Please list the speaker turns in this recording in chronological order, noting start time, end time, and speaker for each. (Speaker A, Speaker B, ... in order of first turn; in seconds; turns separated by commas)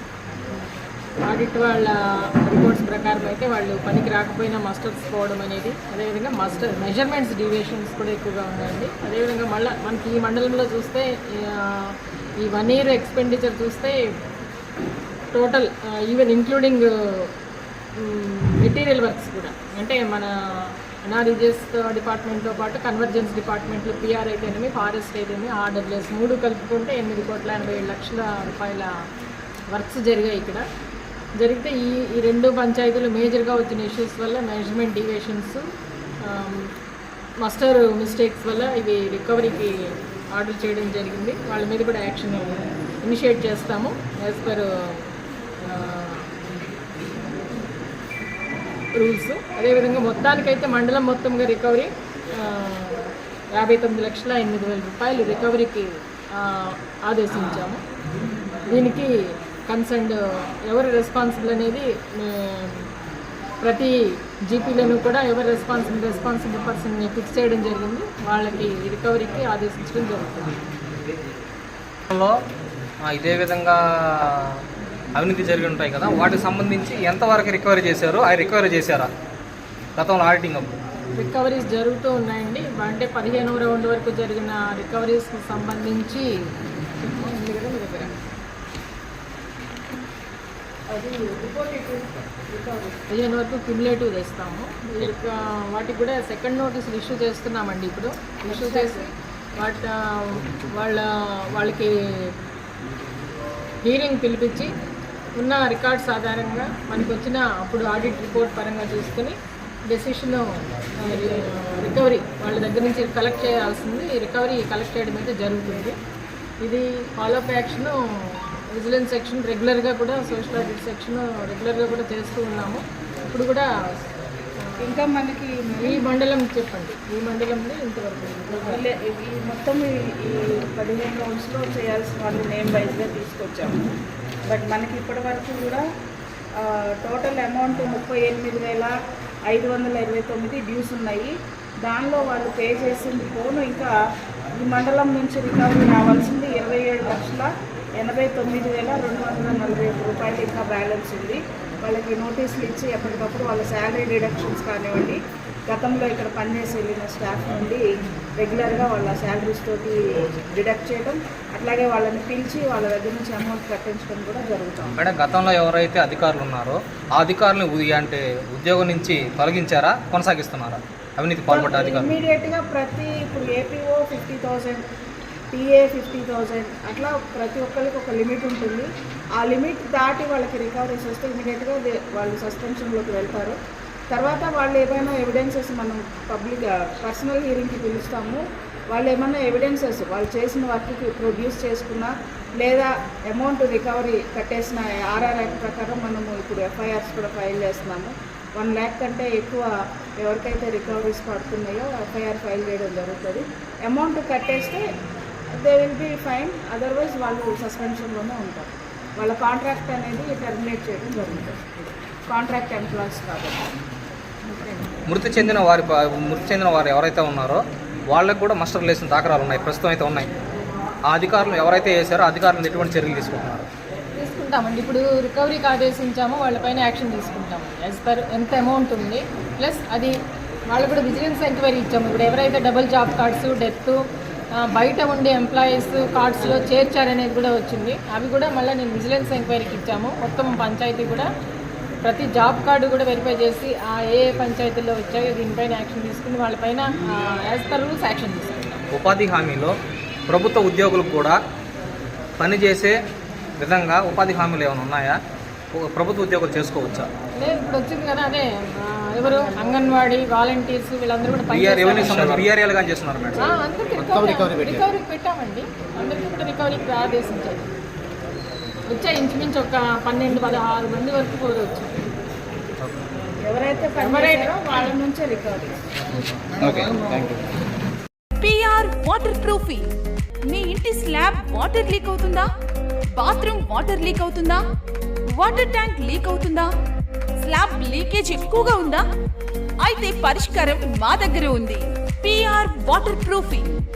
Speaker A: 1.2-14.1, Speaker A: 15.3-17.3, Speaker A: 18.0-28.9, Speaker A: 29.7-30.6, Speaker A: 31.4-35.6, Speaker A: 36.2-36.7, Speaker A: 37.4-45.1, Speaker A: 45.6-46.3, Speaker A: 49.0-57.8, Speaker A: 58.7-59.1, Speaker A: 59.7-62.9, Speaker A: 63.6-70.6, Speaker B: 73.0-74.6, Speaker B: 75.2-79.1, Speaker B: 80.0-80.7, Speaker A: 81.2-86.3, Speaker A: 87.0-88.2, Speaker C: 90.9-93.0, Speaker A: 93.1-102.3, Speaker C: 98.5-99.1, Speaker A: 103.8-104.7, Speaker A: 105.4-109.4, Speaker A: 109.9-116.0, Speaker A: 116.6-123.7, Speaker A: 124.7-125.0, Speaker C: 124.8-126.0, Speaker A: 125.8-128.8, Speaker C: 128.6-133.8, Speaker C: 134.5-135.8, Speaker C: 136.6-138.9, Speaker C: 139.5-141.3, Speaker C: 141.8-143.9, Speaker C: 144.5-157.8, Speaker C: 158.4-164.9, Speaker B: 165.0-172.1, Speaker C: 171.5-174.8, Speaker C: 175.5-183.6, Speaker C: 184.1-204.8, Speaker C: 205.6-211.6, Speaker C: 212.3-213.7, Speaker B: 215.1-220.3, Speaker B: 221.1-223.7, Speaker A: 224.2-230.2, Speaker A: 230.7-234.0, Speaker A: 234.6-241.3, Speaker A: 242.0-248.8, Speaker B: 248.9-249.8, Speaker B: 250.3-251.4, Speaker B: 252.4-252.9, Speaker B: 253.6-255.2, Speaker B: 255.7-257.1, Speaker A: 257.4-262.5, Speaker B: 261.5-263.5, Speaker A: 263.4-267.6, Speaker A: 268.9-272.2, Speaker C: 273.4-275.8, Speaker A: 274.0-274.6, Speaker B: 276.6-277.4, Speaker D: 278.4-279.9, Speaker D: 280.5-282.5, Speaker D: 283.2-284.6, Speaker D: 285.3-286.7, Speaker D: 287.4-289.0, Speaker D: 289.8-293.8